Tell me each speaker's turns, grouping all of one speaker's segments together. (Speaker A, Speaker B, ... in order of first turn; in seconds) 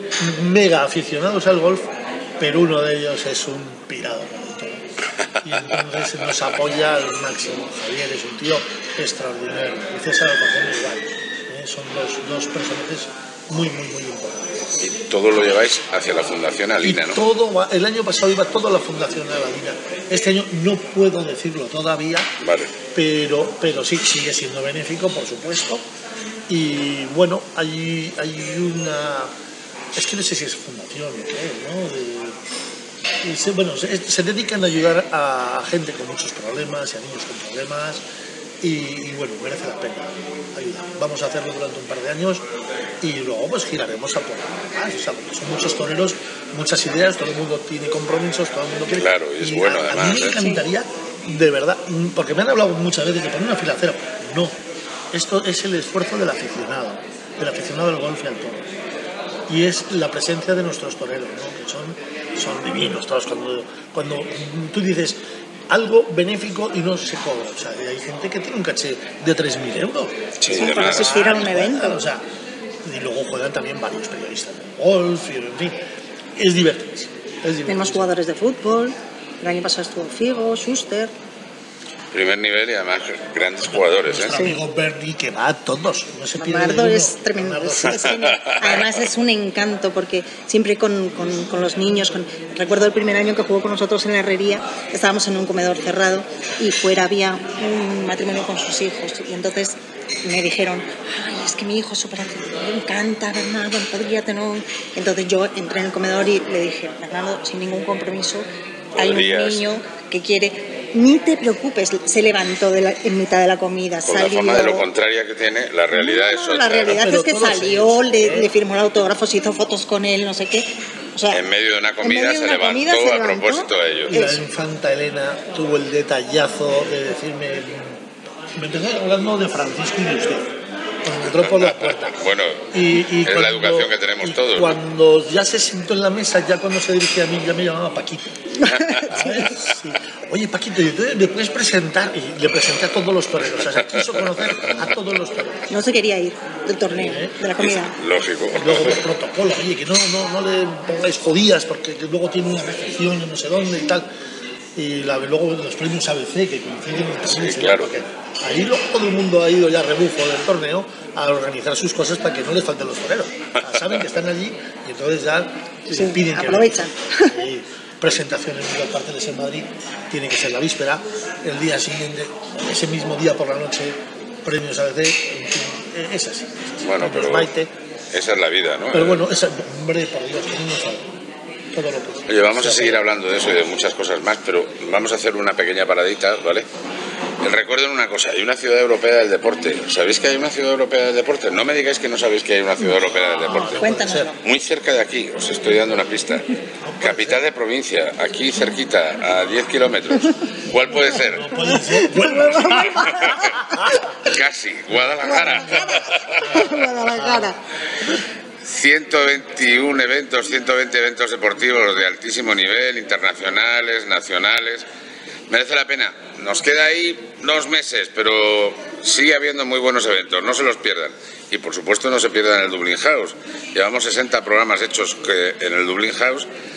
Speaker A: 0.2-4.8, 5.4-14.7, 16.8-22.3, 22.9-25.8, 26.5-29.3, 29.9-32.4, 33.2-38.0, 38.6-42.5, 43.0-54.5, 55.1-58.7, 59.5-65.2, 65.7-72.2, 72.8-75.8, 76.4-78.1, 83.6-88.5, 116.9-118.5, 124.1-128.0, 128.6-132.2, 132.7-138.4, 139.1-145.7, 146.9-147.3, 148.6-154.1, 154.8-177.7, 178.9-181.1, 181.7-183.0, 193.5-194.3, 196.8-197.4, 201.2-203.8, 205.8-207.5
Speaker B: 14.8-17.2, 22.4-22.7, 48.9-50.4, 70.4-71.2, 82.1-84.4, 88.2-88.9, 109.0-109.7, 114.1-117.0, 121.3-124.2, 131.6-132.7, 133.2-134.8, 147.6-149.0, 157.2-157.9, 176.8-177.5, 178.1-179.2, 182.3-186.7, 187.4-196.5, 197.0-201.5, 204.3-206.4, 208.6-214.9, 215.5-226.5
Speaker C: 70.5-72.0, 77.7-81.1, 84.3-84.6, 86.4-114.9, 115.9-121.5, 122.0-124.4, 138.6-139.5, 145.7-147.9, 165.9-167.3, 193.8-194.4, 201.7-203.4, 205.3-205.7, 206.5-207.6